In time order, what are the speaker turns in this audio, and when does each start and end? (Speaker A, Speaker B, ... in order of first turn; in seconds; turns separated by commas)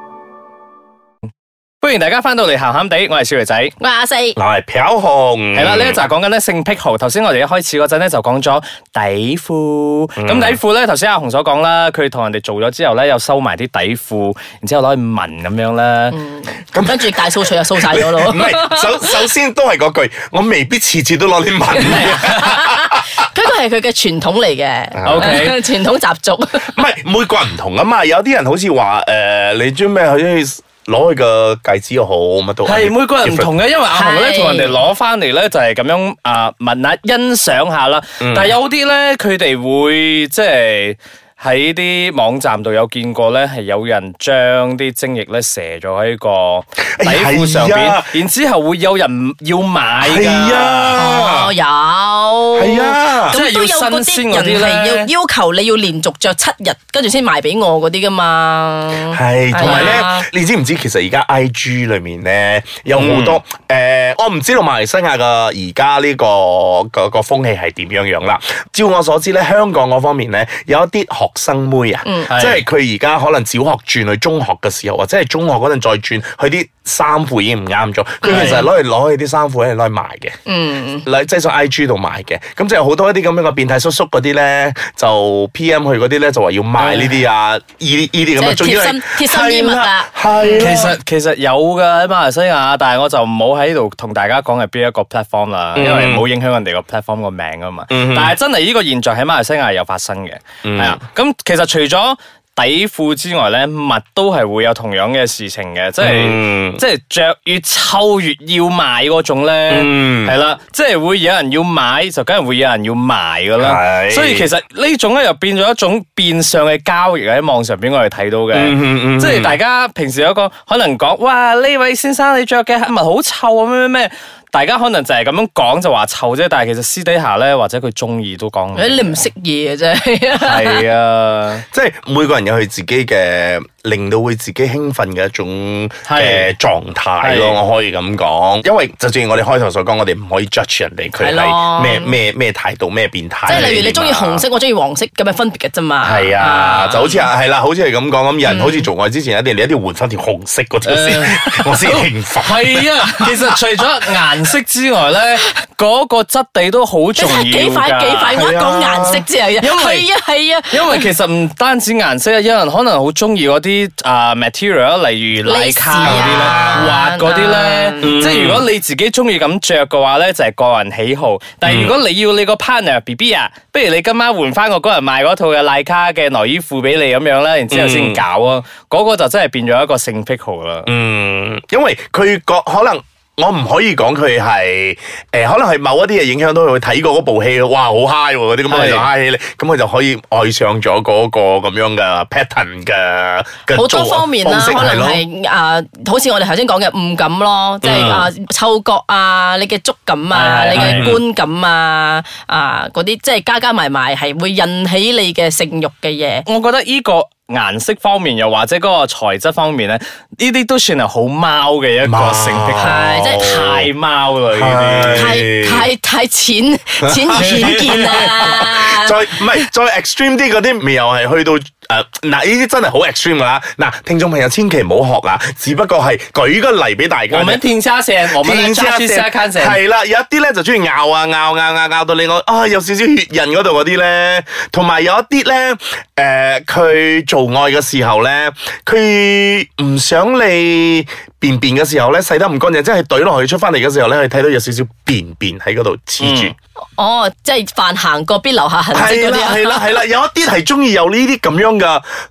Speaker A: 1.8-3.7, Speaker B: 3.8-4.4, Speaker C: 4.4-6.0, Speaker A: 5.5-16.2, Speaker C: 10.2-10.6, Speaker B: 16.1-19.3, Speaker C: 16.7-23.0, Speaker B: 21.8-26.7, Speaker A: 21.9-22.4, Speaker C: 24.9-25.4, Speaker A: 25.0-25.6, Speaker C: 26.6-33.5, Speaker A: 32.6-51.0, Speaker B: 33.9-34.8, Speaker C: 38.2-38.5, Speaker C: 47.0-48.1, Speaker C: 50.0-51.5, Speaker B: 51.0-60.3, Speaker C: 52.5-53.4, Speaker A: 53.4-55.1, Speaker C: 59.1-80.3, Speaker A: 59.6-60.0, Speaker A: 62.9-63.4, Speaker B: 72.0-72.4, Speaker A: 72.3-72.6, Speaker B: 78.2-78.7, Speaker B: 80.5-81.0, Speaker C: 81.0-91.0, Speaker A: 86.8-87.2, Speaker B: 88.4-90.7, Speaker A: 90.6-129.2, Speaker C: 95.8-96.3, Speaker C: 97.9-98.3, Speaker C: 100.6-101.0, Speaker C: 106.0-106.8, Speaker C: 109.7-110.4, Speaker C: 113.6-114.5, Speaker C: 118.5-119.6, Speaker B: 128.8-130.9, Speaker A: 130.4-131.7, Speaker C: 131.7-144.4, Speaker A: 136.1-136.5, Speaker A: 137.2-137.6, Speaker B: 141.2-142.2, Speaker B: 143.5-147.2, Speaker C: 146.0-153.1, Speaker B: 148.4-148.9, Speaker A: 150.8-158.5, Speaker B: 157.2-161.1, Speaker C: 158.3-159.2, Speaker A: 159.6-160.1, Speaker A: 160.7-180.9, Speaker B: 165.4-168.1, Speaker C: 166.0-166.9, Speaker C: 168.0-168.7, Speaker C: 171.7-172.0, Speaker C: 177.7-178.2, Speaker C: 180.9-195.2, Speaker A: 188.7-189.1, Speaker B: 193.7-206.4, Speaker C: 197.8-198.3, Speaker A: 200.3-201.2, Speaker C: 200.8-201.2, Speaker A: 206.5-215.3, Speaker C: 212.1-213.9, Speaker B: 212.8-213.5, Speaker C: 214.5-215.9, Speaker B: 215.1-219.7, Speaker C: 217.0-227.6, Speaker A: 217.4-218.2, Speaker A: 227.3-229.8, Speaker C: 228.3-246.5, Speaker A: 246.2-246.5, Speaker B: 247.0-250.0, Speaker C: 248.9-252.1